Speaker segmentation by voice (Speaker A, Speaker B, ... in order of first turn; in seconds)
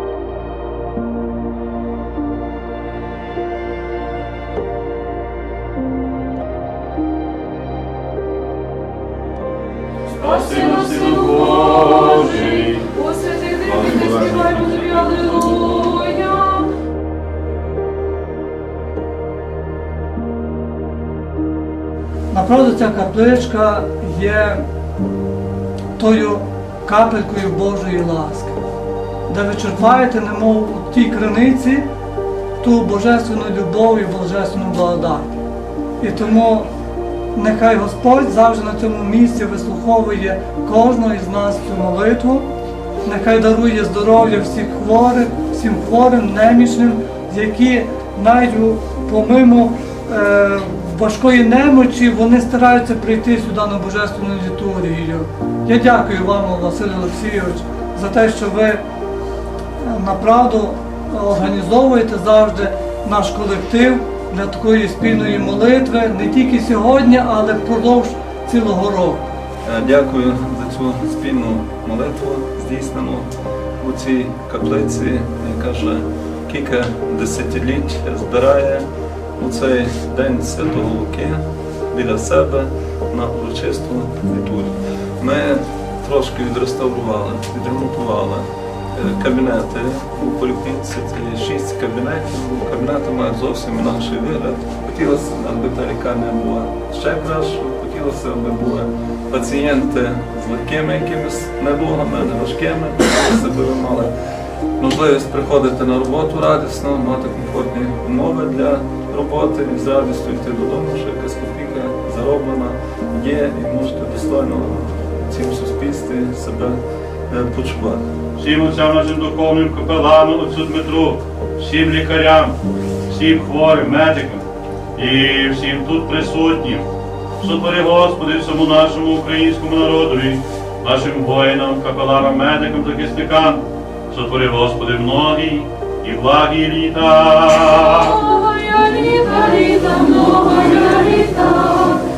Speaker A: 10.2-12.9, 13.6-15.3, 118.4-122.5, 123.1-124.4, 125.0-126.8, 127.4-138.5
Speaker B: 11.9-12.3, 12.9-16.7, 138.4-141.8
Speaker C: 22.3-24.6, 25.9-28.6, 29.3-31.8, 32.6-35.3, 36.0-36.7, 37.3-42.5, 43.0-58.8, 59.8-69.2
Speaker D: 69.6-104.1, 104.8-118.0